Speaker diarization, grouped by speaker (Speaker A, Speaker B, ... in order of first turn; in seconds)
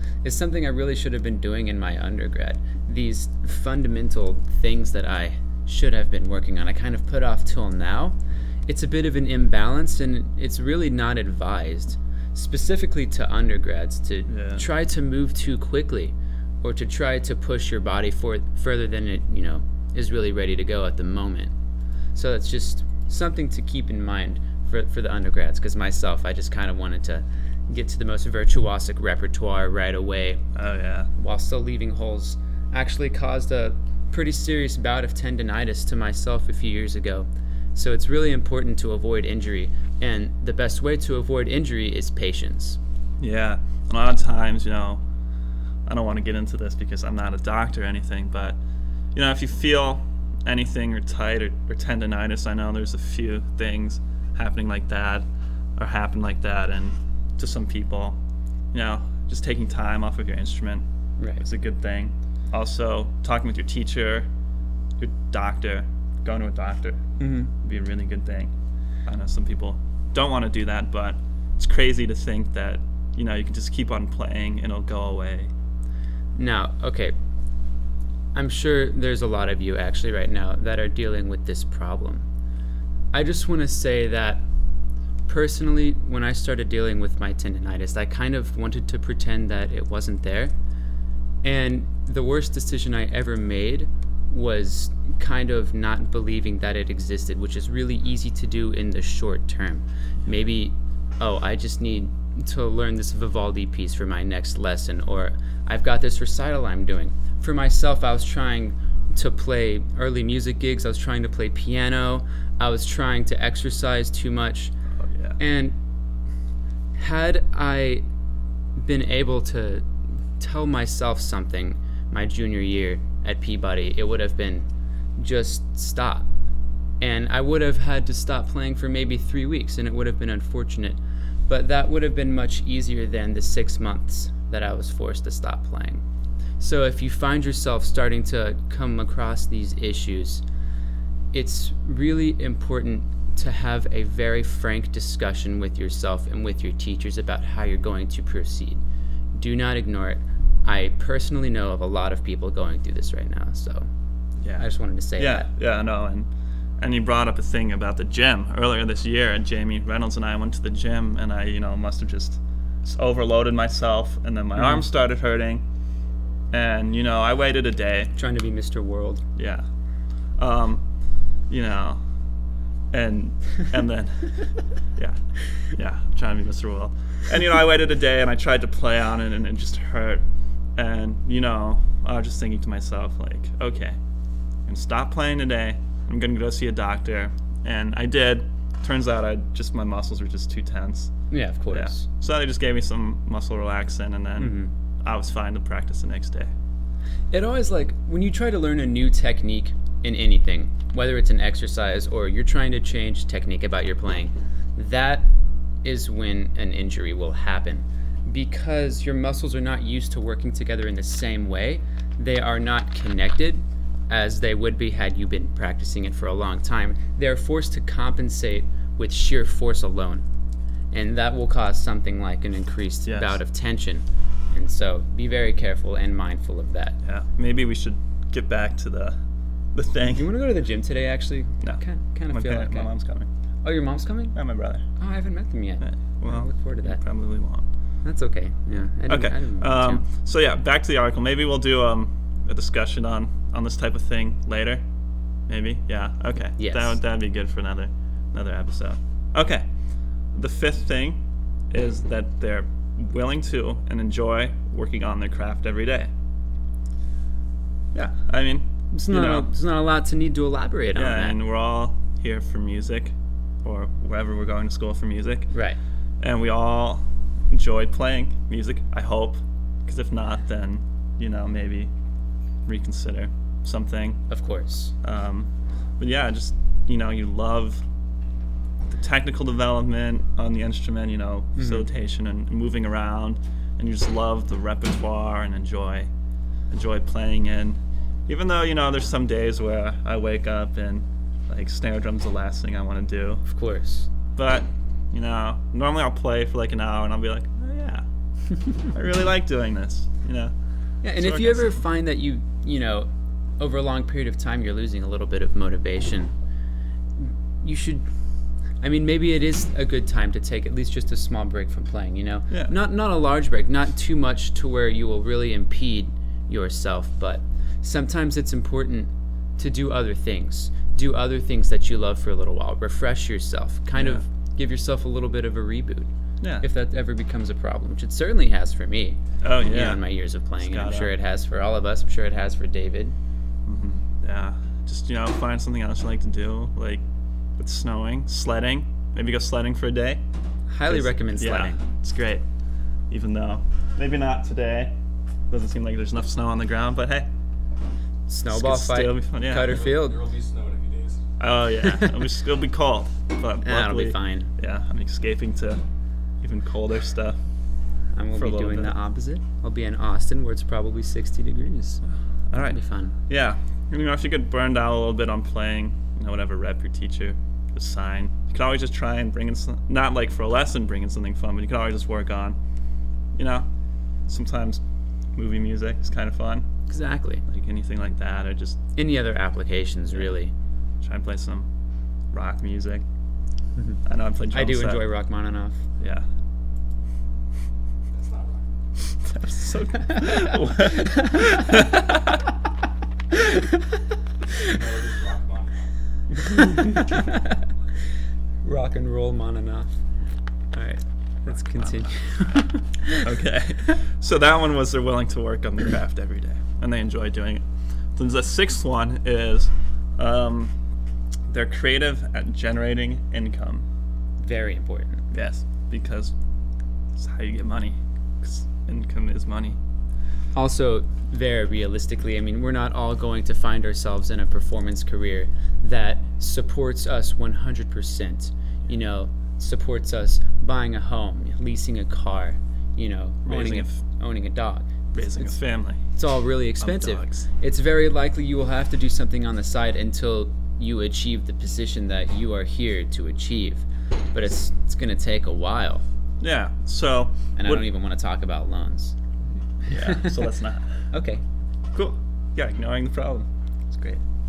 Speaker A: 0.2-21.5, 22.1-30.4, 31.1-42.8, 61.2-61.4, 67.2-67.5, 76.3-77.1, 78.3-82.3, 83.1-84.5, 85.2-90.5, 91.4-114.8, 115.4-115.8, 116.9-118.0, 118.7-126.3, 127.0-131.0, 131.5-136.0, 136.6-140.4, 141.3-148.8, 149.3-153.9, 154.6-155.5, 164.6-164.8, 168.2-169.2, 191.3-192.1, 194.4-194.7, 197.3-205.3, 205.8-220.2, 220.9-227.0, 230.1-232.9, 233.6-234.3, 234.9-237.0, 238.0-240.0, 246.6-247.0, 258.9-261.4, 265.5-265.8, 274.3-274.9, 281.6-281.9, 293.4-294.1, 301.0-303.1, 303.6-306.3, 307.2-308.1, 308.8-333.1, 340.7-341.8, 348.3-350.2, 351.9-352.1, 353.6-354.5, 358.1-363.1, 376.9-377.4, 378.9-380.5, 384.5-385.8, 390.1-391.4, 396.6-397.6, 398.6-400.0, 400.7-403.2, 414.4-415.2, 420.5-446.0, 447.6-449.2, 449.8-450.4, 451.1-451.4
Speaker B: 14.3-14.7, 30.5-31.1, 43.2-45.0, 45.9-48.6, 49.1-58.2, 58.7-60.8, 61.4-64.3, 65.0-68.5, 69.0-75.5, 115.0-115.4, 154.4-165.6, 166.5-168.1, 169.3-169.7, 170.3-170.8, 171.5-172.0, 172.9-180.2, 180.7-184.0, 184.6-191.2, 191.7-196.5, 223.0-223.4, 227.0-229.2, 229.7-230.2, 231.6-233.3, 234.3-234.8, 235.8-237.6, 238.7-244.8, 245.4-256.1, 257.9-259.5, 260.9-265.5, 266.2-271.9, 272.6-274.2, 275.0-277.8, 278.9-286.1, 286.7-293.4, 294.3-298.1, 298.6-300.5, 301.1-301.8, 323.9-324.2, 326.4-326.7, 329.4-330.0, 330.6-331.1, 333.6-337.0, 337.6-340.2, 340.9-342.4, 343.1-344.9, 345.5-347.3, 348.5-349.8, 351.4-355.9, 356.4-357.4, 358.3-358.9, 362.1-372.6, 373.4-373.7, 374.2-374.8, 375.3-376.7, 377.5-378.8, 381.0-381.7, 382.3-383.0, 384.0-385.0, 386.0-386.2, 389.2-392.4, 401.4-402.1, 403.2-410.7, 411.5-413.9, 415.3-416.4, 417.1-419.8, 433.4-434.0, 435.1-436.0, 436.8-437.5, 446.4-447.8, 449.9-451.1, 451.9-454.2
Speaker C: 349.6-351.4, 388.1-388.9, 394.6-396.4